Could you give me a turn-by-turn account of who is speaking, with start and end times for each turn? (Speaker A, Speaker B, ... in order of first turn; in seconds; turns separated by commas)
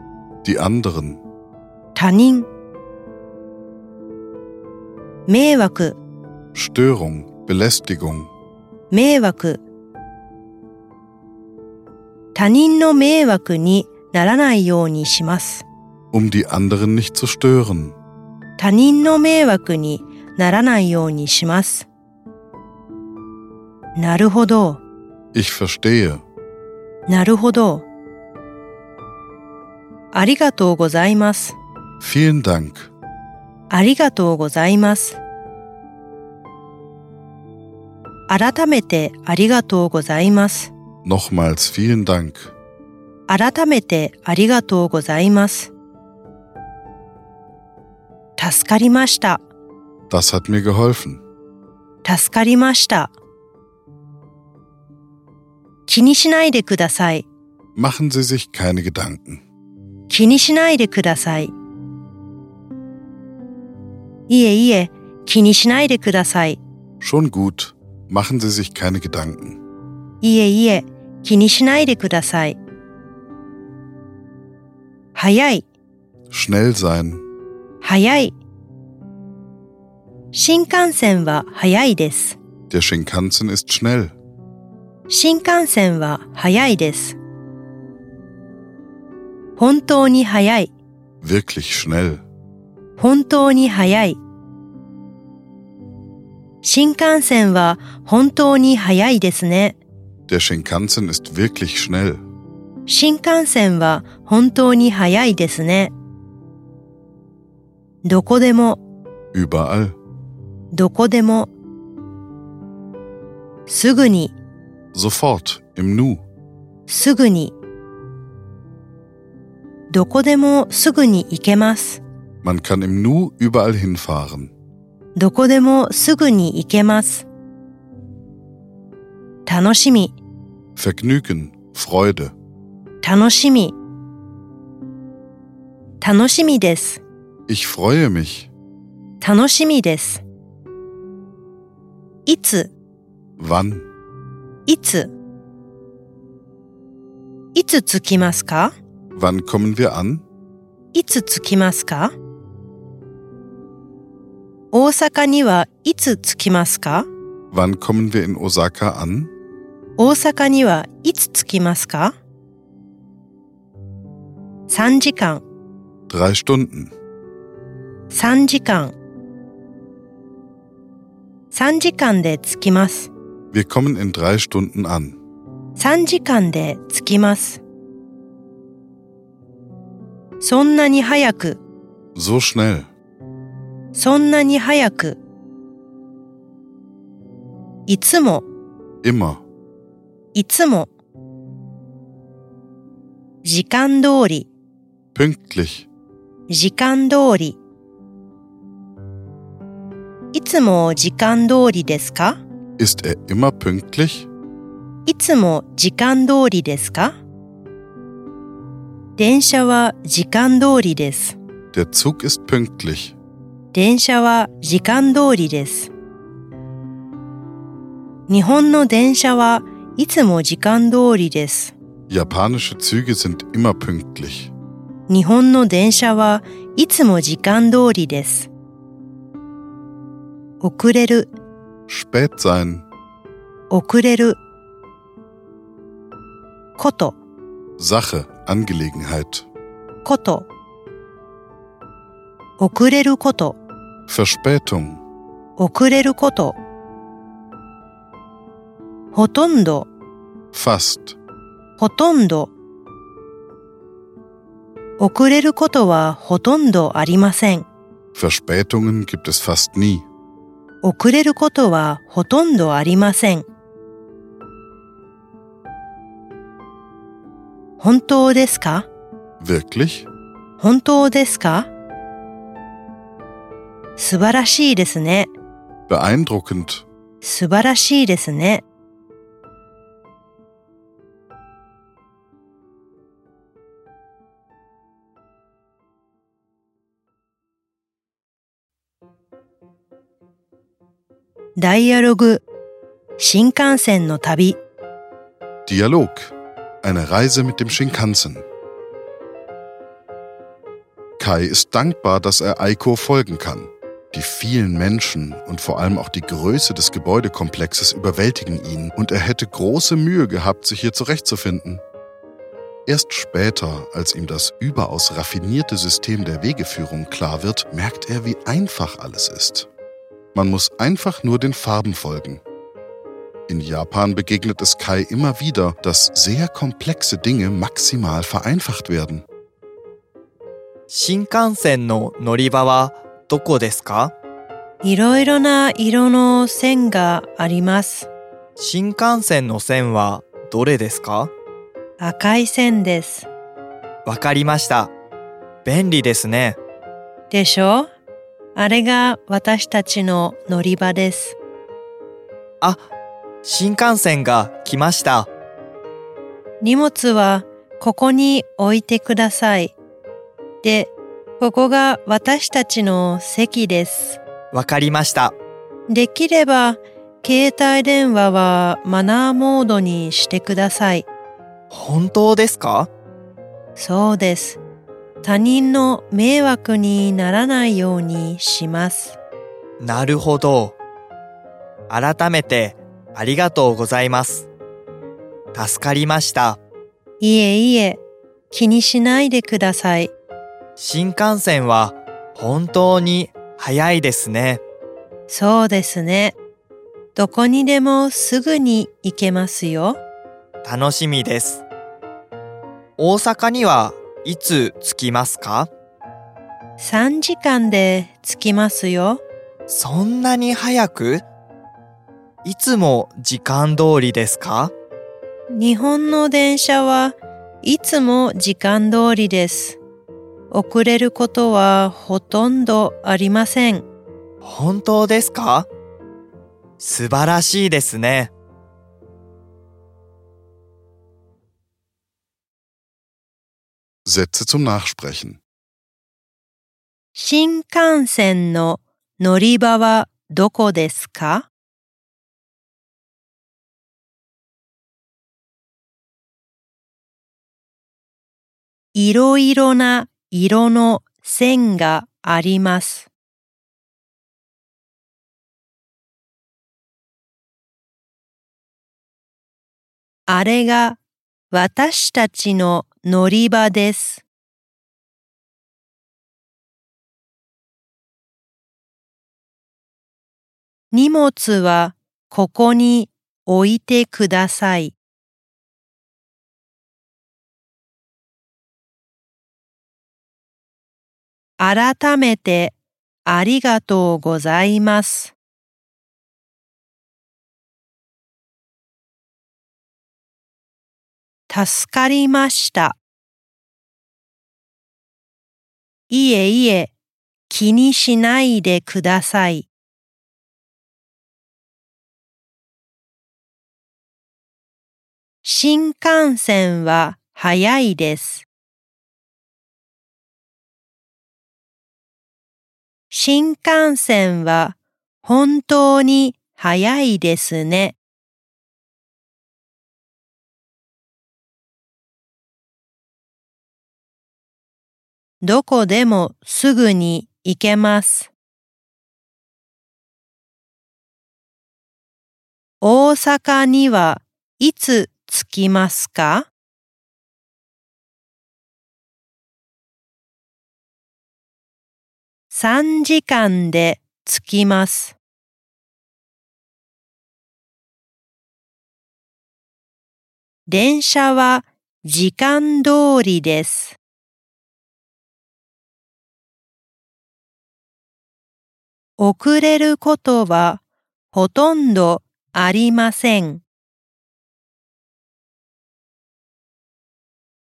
Speaker A: 0.4-1.2, Speaker B: 1.9-2.5, Speaker B: 5.3-6.0, Speaker A: 6.5-8.3, Speaker B: 8.9-9.6, Speaker B: 12.3-15.6, Speaker A: 16.1-17.9, Speaker B: 18.6-21.9, Speaker B: 23.9-24.8, Speaker A: 25.3-26.2, Speaker B: 27.1-27.9, Speaker B: 30.1-31.6, Speaker A: 32.0-32.9, Speaker B: 33.7-35.2, Speaker B: 38.3-40.7, Speaker A: 41.0-42.5, Speaker B: 43.3-45.7, Speaker B: 48.4-49.4, Speaker A: 50.1-51.2, Speaker B: 52.0-53.1, Speaker B: 55.9-57.2, Speaker A: 57.8-59.4, Speaker B: 60.1-61.5, Speaker B: 64.3-66.6, Speaker A: 67.0-69.6, Speaker B: 70.2-72.6, Speaker B: 75.1-75.6, Speaker A: 76.3-77.2, Speaker B: 77.8-78.3, Speaker B: 80.3-82.4, Speaker A: 82.7-84.1, Speaker B: 85.1-87.2, Speaker B: 89.6-90.7, Speaker A: 91.2-92.2, Speaker B: 93.0-94.2, Speaker B: 96.6-99.8, Speaker A: 100.3-102.2, Speaker B: 102.8-105.9, Speaker B: 108.0-108.8, Speaker A: 109.3-110.0, Speaker B: 110.7-111.5, Speaker B: 113.7-114.3, Speaker A: 114.9-116.2, Speaker B: 116.9-117.5, Speaker B: 119.9-122.0, Speaker A: 122.4-124.5, Speaker B: 125.2-127.3, Speaker B: 129.4-130.2, Speaker A: 130.8-132.3, Speaker B: 133.0-133.7, Speaker B: 136.0-137.0, Speaker A: 137.5-138.5, Speaker B: 139.2-140.2, Speaker B: 142.2-142.7, Speaker A: 143.4-143.9, Speaker B: 144.7-145.1, Speaker B: 147.5-148.7, Speaker A: 149.1-150.2, Speaker B: 150.9-152.1, Speaker B: 154.7-157.1, Speaker A: 157.5-159.3, Speaker B: 160.0-162.1, Speaker B: 164.7-165.4, Speaker A: 166.1-166.9, Speaker B: 168.1-168.9, Speaker B: 171.5-173.1, Speaker A: 173.5-175.2, Speaker B: 175.8-177.6, Speaker B: 180.4-181.6, Speaker A: 182.1-182.9, Speaker B: 183.9-185.2, Speaker B: 187.9-188.4, Speaker A: 189.0-189.4, Speaker B: 190.3-190.9, Speaker B: 193.4-194.5, Speaker A: 195.1-195.9, Speaker B: 196.5-197.6, Speaker B: 200.3-202.4, Speaker A: 202.8-204.3, Speaker B: 205.1-207.2, Speaker B: 209.2-211.4, Speaker A: 211.7-213.2, Speaker B: 213.7-215.9, Speaker B: 218.3-221.7, Speaker A: 222.1-224.5, Speaker B: 225.1-228.5, Speaker B: 230.6-231.3, Speaker A: 231.9-232.8, Speaker B: 233.7-234.4, Speaker B: 236.8-237.2, Speaker A: 237.8-239.5, Speaker B: 240.0-240.5, Speaker B: 242.6-243.6, Speaker A: 244.1-245.0, Speaker B: 245.6-246.6, Speaker B: 249.1-249.9, Speaker A: 250.5-251.2, Speaker B: 251.8-252.5, Speaker B: 255.0-257.7, Speaker A: 258.1-260.0, Speaker B: 260.8-263.4, Speaker B: 267.8-268.9, Speaker A: 269.4-270.1, Speaker B: 270.6-271.7, Speaker B: 274.0-275.3, Speaker A: 275.9-276.9, Speaker B: 277.2-278.6, Speaker B: 291.6-292.4, Speaker B: 293.2-294.6, Speaker A: 295.6-298.4, Speaker A: 301.2-311.8, Speaker A: 312.9-319.7, Speaker A: 320.3-322.4, Speaker A: 323.5-329.2, Speaker C: 330.9-334.1, Speaker B: 334.8-338.1, Speaker C: 338.6-341.3, Speaker B: 342.0-343.3, Speaker C: 344.1-344.9, Speaker C: 345.6-346.6, Speaker B: 347.3-347.9, Speaker B: 348.5-351.4, Speaker C: 352.6-352.9, Speaker C: 353.4-355.3, Speaker B: 356.6-359.7, Speaker B: 360.6-364.2, Speaker C: 364.5-365.3, Speaker B: 365.9-371.1, Speaker C: 371.7-372.9, Speaker B: 373.8-374.6, Speaker B: 375.2-379.2, Speaker C: 379.8-380.8, Speaker C: 381.9-384.5, Speaker C: 385.5-386.6, Speaker B: 387.2-390.1, Speaker C: 390.8-394.6, Speaker B: 395.3-396.4, Speaker B: 397.1-400.0, Speaker C: 400.6-401.6, Speaker C: 403.0-405.7, Speaker B: 406.8-409.2, Speaker C: 409.7-411.2, Speaker C: 412.4-414.7, Speaker B: 415.5-419.8, Speaker B: 420.5-423.9, Speaker C: 424.4-425.7, Speaker C: 426.8-428.3, Speaker A: 434.0-435.4, Speaker B: 437.1-441.5, Speaker B: 448.9-453.1, Speaker B: 460.3-461.0, Speaker B: 461.5-464.2, Speaker B: 470.9-474.9, Speaker B: 481.6-485.3, Speaker B: 491.5-493.0, Speaker B: 496.1-496.9, Speaker B: 497.5-499.7, Speaker B: 505.4-508.4, Speaker B: 513.1-518.0, Speaker B: 525.4-528.3, Speaker B: 532.8-536.5, Speaker B: 542.5-545.2, Speaker B: 550.7-554.0, Speaker B: 559.2-563.6